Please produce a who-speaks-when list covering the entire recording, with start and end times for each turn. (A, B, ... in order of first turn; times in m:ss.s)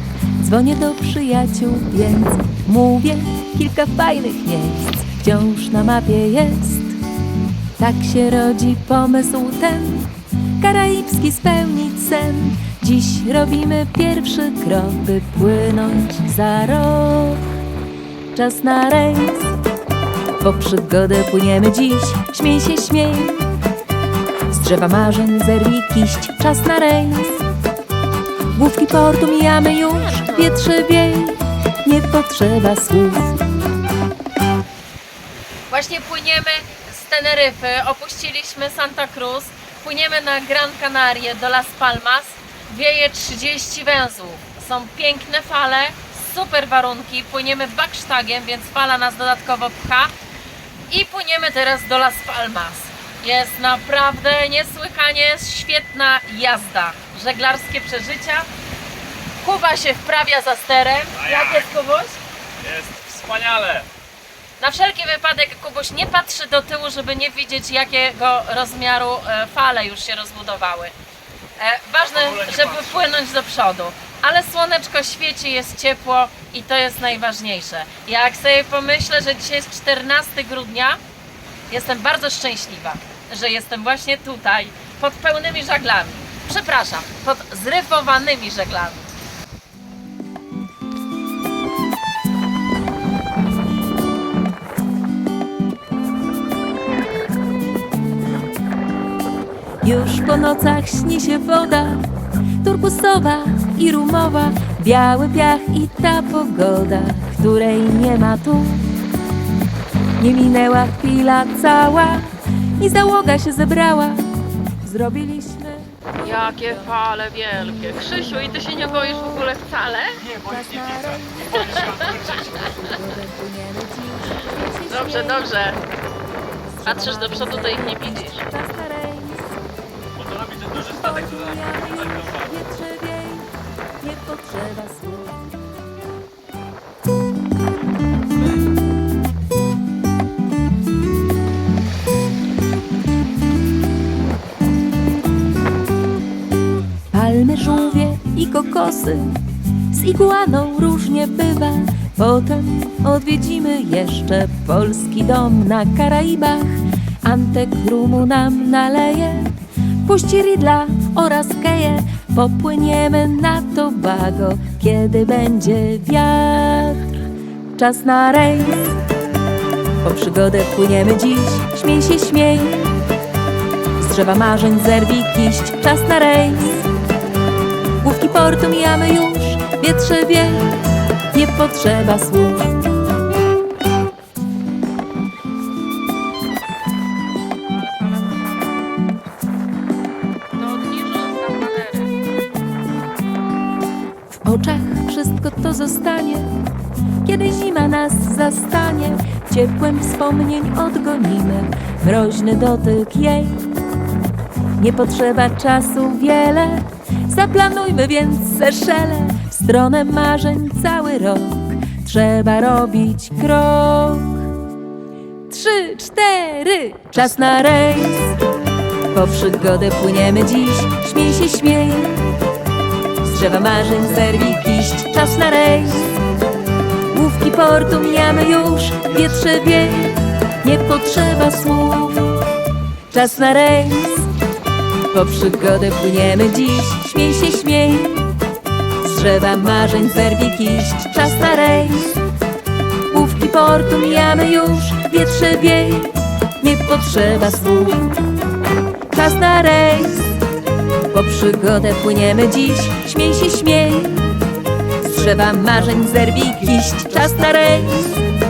0:00.4-0:07.0 A
0:07.8-0:17.4 A
0:18.3-0:19.5 A
0:20.4-0:23.4 A
0:24.5-0:27.4 A
0:28.5-0:33.4 A
0:35.7-0:50.1 B
0:50.9-0:58.5 B
0:59.4-1:02.2 B
1:01.2-1:01.7 C
1:02.6-1:03.9 C
1:04.6-1:10.9 B
1:11.6-1:21.0 B
1:12.0-1:13.0 C
1:21.7-1:29.0 B
1:39.8-1:42.0 A
1:42.6-1:48.9 A
1:50.2-1:54.3 A
1:54.8-1:59.6 A
1:56.2-2:00.2 B
2:00.3-2:05.8 A
2:01.6-2:02.3 C
2:04.9-2:05.8 B
2:06.7-2:09.6 A
2:06.8-2:08.4 B
2:10.2-2:11.6 C
2:10.8-2:15.6 A
2:12.1-2:12.5 C
2:27.1-2:29.4 A
2:29.9-2:47.1 A
2:47.8-2:49.0 A
2:50.0-2:52.9 A
2:54.0-2:56.8 A
2:58.0-3:00.8 A
3:01.3-3:02.8 A
3:07.8-3:08.5 B
3:10.5-3:12.1 B
3:14.3-3:16.5 A
3:17.2-3:23.8 A
3:24.8-3:34.5 A
3:35.5-3:38.4 A
3:39.1-3:42.2 A
3:43.2-3:46.1 A
3:47.1-3:52.4 A
3:53.1-3:54.3 A
3:55.1-3:58.3 A
3:59.0-4:02.2 A
4:03.1-4:08.2 A
4:09.1-4:10.4 A
4:11.1-4:14.3 A
4:15.0-4:18.2 A